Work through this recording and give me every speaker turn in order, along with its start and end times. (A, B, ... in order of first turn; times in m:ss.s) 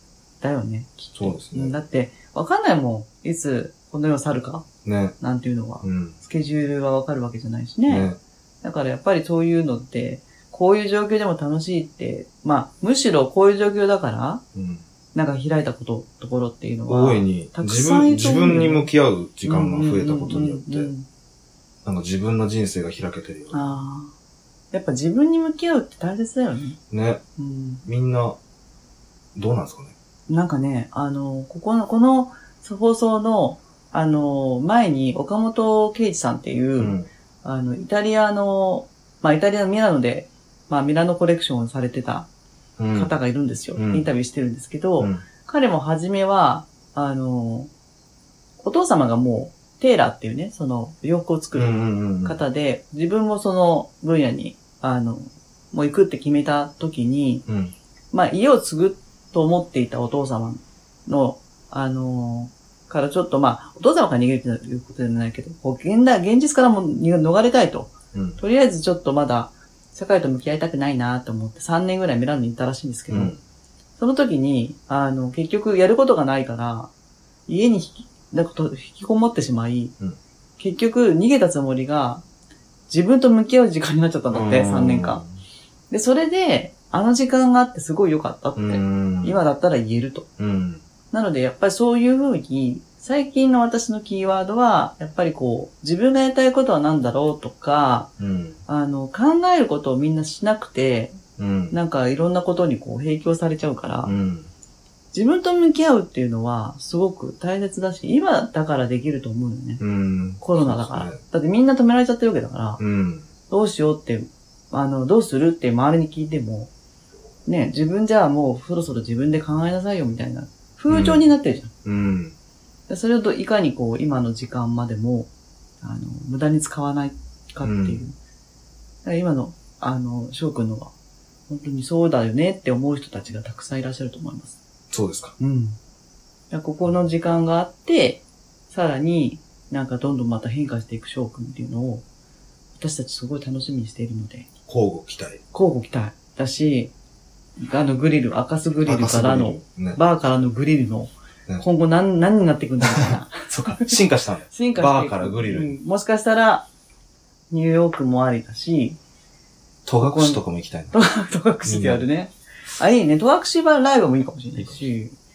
0:00.4-0:04.6 A
0:01.2-0:01.8 B
0:04.8-0:05.2 B
0:05.2-0:08.1 A
0:05.8-0:06.2 B
0:07.9-0:08.2 B
0:08.6-0:14.4 A
0:14.5-0:14.9 B
0:15.1-0:18.9 A
0:16.9-0:20.9 B
0:19.4-0:21.1 A
0:21.8-0:23.8 B
0:23.5-0:24.1 A
0:24.7-0:26.8 A
0:26.9-0:27.2 B
0:27.4-0:27.8 A
0:27.8-0:28.4 B
0:29.4-0:30.0 B
0:30.3-0:42.3 A
0:36.8-0:37.1 B
0:42.8-0:43.1 B
0:43.0-0:47.7 A
0:43.8-0:44.1 B
0:45.0-0:45.2 B
0:48.6-0:57.4 A
0:51.5-0:52.4 B
0:57.5-0:57.8 B
0:58.1-1:13.4 A
1:08.1-1:08.4 B
1:13.1-1:13.4 B
1:14.0-1:16.9 A
1:17.5-1:19.9 A
1:20.6-1:22.2 A
1:22.9-1:25.2 A
1:24.3-1:25.3 B
1:25.9-1:30.3 A
1:28.6-1:29.4 B
1:30.4-1:30.8 B
1:31.1-1:38.1 A
1:38.2-1:38.6 B
1:38.7-1:41.2 A
1:41.4-1:41.8 B
1:41.7-1:44.1 A
1:44.0-1:44.5 B
1:45.1-1:49.8 A
1:49.8-1:51.2 B
1:50.4-1:52.8 A
1:52.8-1:53.3 B
1:53.5-1:56.7 A
1:57.5-2:01.7 A
2:00.9-2:01.3 B
2:01.8-2:02.4 B
2:02.9-2:05.3 A
2:05.8-2:08.2 A
2:07.6-2:08.0 B
2:09.0-2:10.9 A
2:11.5-2:14.6 A
2:14.9-2:15.4 B
2:15.4-2:15.8 A
2:16.5-2:22.0 A
2:22.8-2:24.5 A
2:24.7-2:25.4 B
2:25.5-2:26.9 A
2:27.6-2:33.9 A
2:28.8-2:30.0 B
2:33.5-2:35.8 B
2:34.5-2:36.7 A
2:37.5-2:39.0 A
2:39.9-2:41.0 B
2:40.0-2:40.4 A
2:40.9-2:45.2 A
2:41.6-2:42.1 B
2:44.6-2:44.8 B